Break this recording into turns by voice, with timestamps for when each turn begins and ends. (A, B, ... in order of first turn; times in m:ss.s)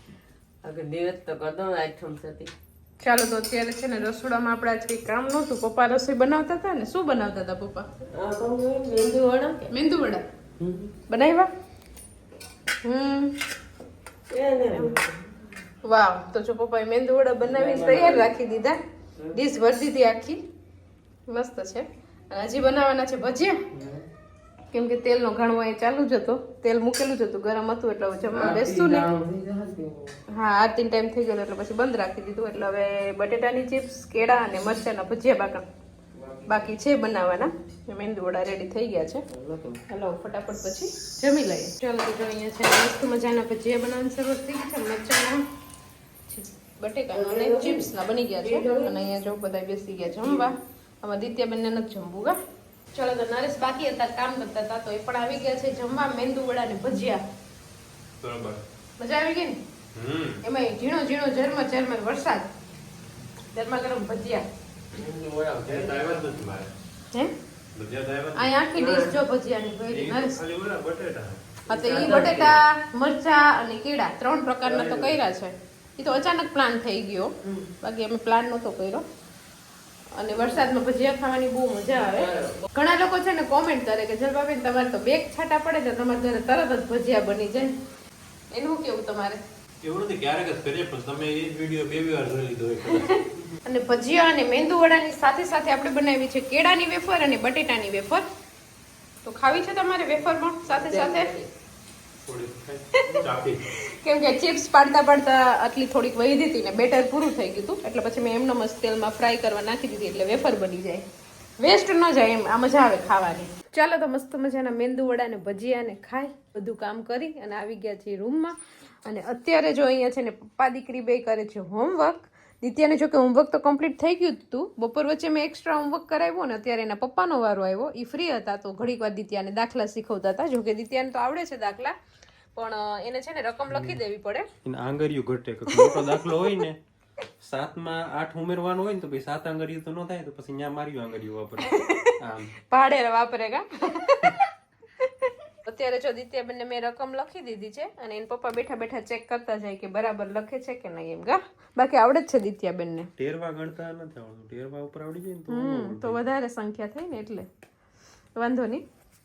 0:00.6-0:02.5 A
0:03.0-0:07.9 B
0:08.1-0:09.7 A
0:09.7-0:10.2 B
0:10.6-0:10.9 A
0:11.1-0:11.5 B
0:12.8-0:13.4 B
0:14.3-0:15.3 A
0:15.8-0:18.8 B
0:17.4-0:18.3 A
0:19.4-0:20.4 B
0:21.3-0:23.6 B
0:23.7-0:24.0 A
0:24.7-0:29.1 B
0:28.3-0:30.2 A
0:30.4-0:35.6 B
0:36.2-0:36.7 A
0:36.5-0:39.2 B
0:39.3-0:39.8 A
0:39.9-0:45.4 B
0:46.3-0:50.5 B
0:47.1-0:49.0 A
0:50.2-0:50.5 A
0:51.0-0:52.4 B
0:52.9-0:57.2 B
0:58.2-0:58.6 C
0:59.0-0:59.6 B
1:00.0-1:00.4 C
1:00.4-1:02.4 B
1:03.5-1:04.5 B
1:05.0-1:06.0 A
1:05.1-1:06.7 C
1:07.7-1:08.5 C
1:08.4-1:10.4 B
1:08.8-1:09.2 A
1:09.9-1:11.4 C
1:11.7-1:12.6 A
1:11.7-1:17.3 B
1:14.6-1:15.1 A
1:17.4-1:17.7 A
1:17.8-1:19.0 B
1:20.2-1:27.7 B
1:20.3-1:20.7 A
1:22.0-1:22.7 A
1:28.5-1:29.4 B
1:29.8-1:33.4 C
1:33.7-1:38.2 B
1:39.2-1:41.3 B
1:40.7-1:41.5 A
1:42.3-1:43.6 C
1:43.1-1:51.0 B
1:51.6-1:58.6 B
1:59.1-2:11.9 B
2:12.6-2:14.5 B
2:13.7-2:14.0 C
2:14.6-2:16.8 C
2:15.8-2:16.1 B
2:17.4-2:22.6 C
2:21.8-2:22.1 B
2:22.7-2:24.3 B
2:25.0-2:33.1 B
2:33.2-2:36.2 C
2:35.5-2:37.5 B
2:38.4-2:38.8 B